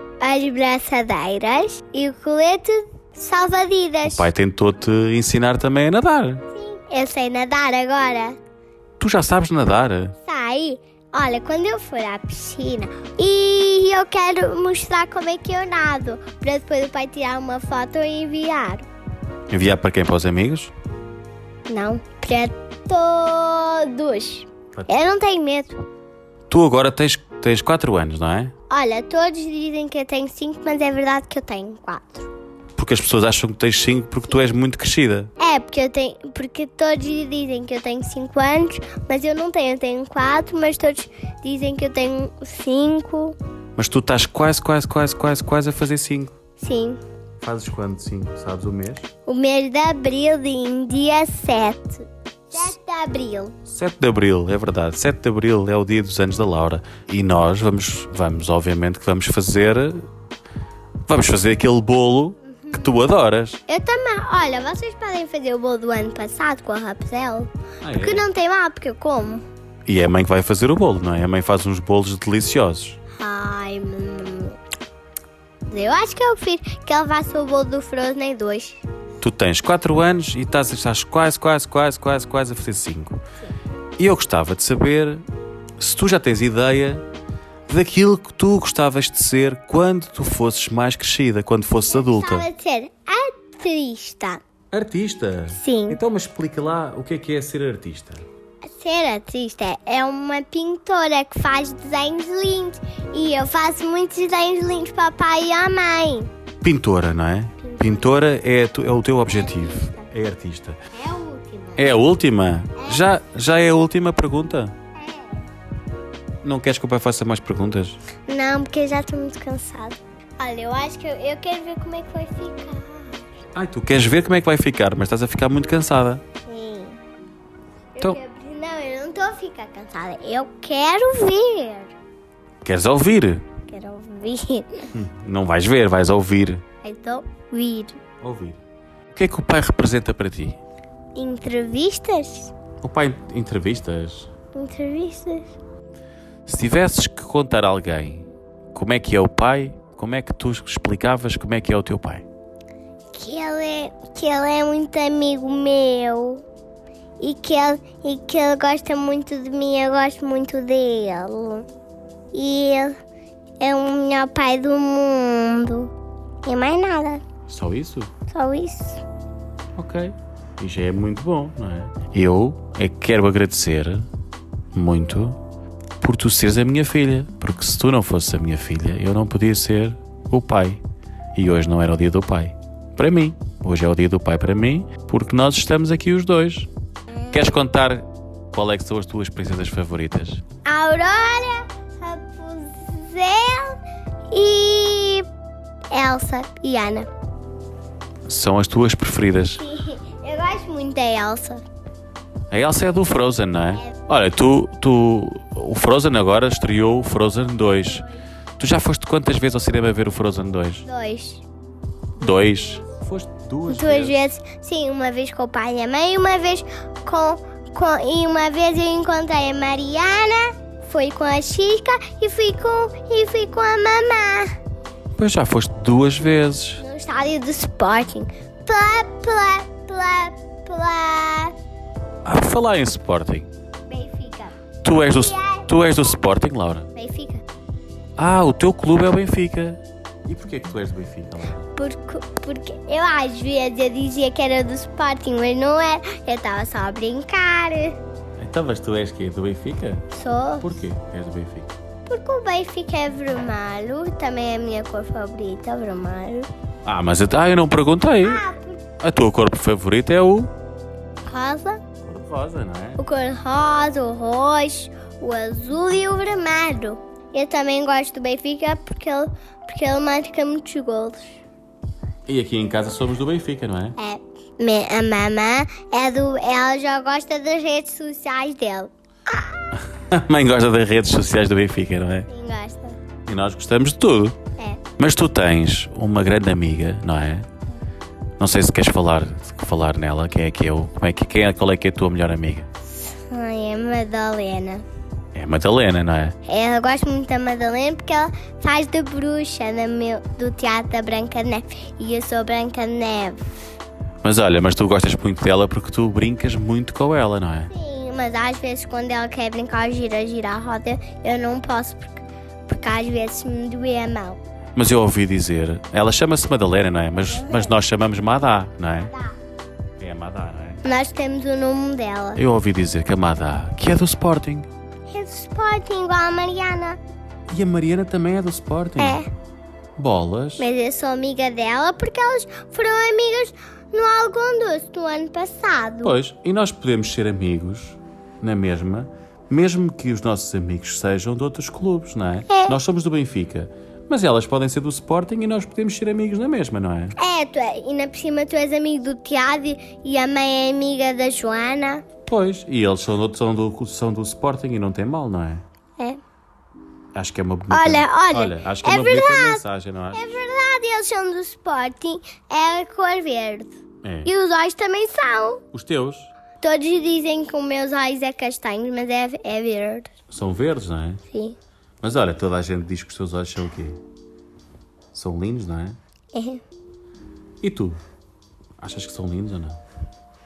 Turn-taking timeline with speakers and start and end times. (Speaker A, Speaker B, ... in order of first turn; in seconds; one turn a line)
Speaker A: 0.2-4.3
Speaker B: 4.0-6.4
Speaker A: 6.5-8.4
Speaker B: 9.0-10.1
Speaker A: 10.2-18.9
Speaker B: 19.5-20.7
Speaker A: 21.7-25.8
Speaker B: 24.7-25.0
Speaker B: 26.5-28.5
Speaker A: 28.7-32.3
Speaker B: 32.8-35.3
Speaker A: 35.4-43.4
Speaker B: 43.8-46.3
Speaker A: 46.6-47.0
Speaker B: 47.4-49.1
Speaker A: 49.3-53.5
Speaker B: 53.7-60.1
Speaker B: 61.1-63.6
Speaker A: 62.6-62.9
Speaker A: 63.7-69.4
Speaker B: 67.8-68.3
Speaker B: 69.8-73.0
Speaker A: 73.2-74.6
Speaker A: 75.7-78.8
Speaker B: 79.2-83.2
Speaker B: 84.0-85.2
Speaker B: 85.8-87.0
Speaker B: 87.7-92.5
Speaker A: 91.9-94.4
Speaker B: 94.7-98.2
Speaker A: 95.5-96.0
Speaker A: 98.6-106.3
Speaker B: 106.6-110.8
Speaker A: 107.6-108.0
Speaker A: 109.4-110.1
Speaker A: 110.9-111.9
Speaker B: 111.8-114.7
Speaker A: 112.8-113.2
Speaker A: 114.9-115.5
Speaker B: 116.4-118.0
Speaker A: 118.3-123.2
Speaker B: 123.5-126.2
Speaker A: 126.5-127.0
Speaker A: 128.0-131.9
Speaker B: 132.6-133.4
Speaker A: 133.7-134.9
Speaker B: 134.9-136.6
Speaker A: 136.8-138.0
Speaker B: 138.2-140.6
Speaker A: 141.2-142.5
Speaker B: 142.8-144.3
Speaker A: 144.5-145.6
Speaker B: 146.4-152.2
Speaker A: 153.1-156.4
Speaker A: 157.2-161.7
Speaker A: 162.3-163.0
Speaker A: 163.6-165.9
Speaker A: 166.4-167.2
Speaker B: 167.5-168.1
Speaker A: 168.3-169.0
Speaker B: 169.8-174.1
Speaker B: 174.7-175.4
Speaker B: 176.0-180.8
Speaker B: 181.3-186.7
Speaker B: 187.3-190.4
Speaker A: 190.6-193.8
Speaker A: 194.3-195.3
Speaker A: 195.9-197.1
Speaker B: 198.2-199.6
Speaker A: 199.6-201.6
Speaker B: 202.5-208.1
Speaker B: 208.6-210.8
Speaker A: 210.8-211.4
Speaker B: 212.2-214.2
Speaker A: 213.7-224.6
Speaker B: 225.2-226.8
Speaker A: 226.8-231.5
Speaker B: 232.2-233.5
Speaker A: 233.9-235.7
Speaker B: 234.8-236.9
Speaker A: 236.9-237.4
Speaker B: 238.2-241.7
Speaker A: 241.7-248.0
Speaker B: 248.4-250.1
Speaker A: 250.1-250.7
Speaker B: 250.6-251.7
Speaker A: 252.1-256.5
Speaker B: 256.8-258.4
Speaker A: 258.2-258.8
Speaker B: 259.0-260.5
Speaker A: 261.2-261.8
Speaker B: 262.0-263.0
Speaker A: 263.0-271.4
Speaker B: 272.3-273.9
Speaker A: 274.0-279.5
Speaker B: 279.7-282.3
Speaker A: 282.3-283.0
Speaker B: 283.2-284.4
Speaker B: 285.0-287.5
Speaker B: 288.4-292.7
Speaker A: 292.9-294.8
Speaker B: 295.3-296.4
Speaker A: 296.4-303.4
Speaker B: 304.2-307.7
Speaker A: 307.7-314.4
Speaker B: 314.8-319.1
Speaker A: 317.3-317.7
Speaker A: 319.1-319.3
Speaker B: 320.0-320.8
Speaker A: 320.8-322.4
Speaker B: 322.4-324.7
Speaker A: 325.1-327.0
Speaker B: 327.5-329.2
Speaker A: 329.0-329.3
Speaker B: 330.0-330.6
Speaker A: 330.6-336.1
Speaker B: 336.0-347.1
Speaker A: 342.5-342.8
Speaker A: 347.1-352.0
Speaker B: 352.2-355.6
Speaker B: 357.1-360.4
Speaker A: 357.7-365.6
Speaker B: 364.0-364.3
Speaker B: 365.7-366.3
Speaker A: 366.6-370.1
Speaker B: 370.3-371.2
Speaker A: 371.3-371.6
Speaker B: 372.0-374.0
Speaker B: 375.1-376.0
Speaker A: 376.3-376.6
Speaker B: 377.6-378.0
Speaker B: 378.8-379.8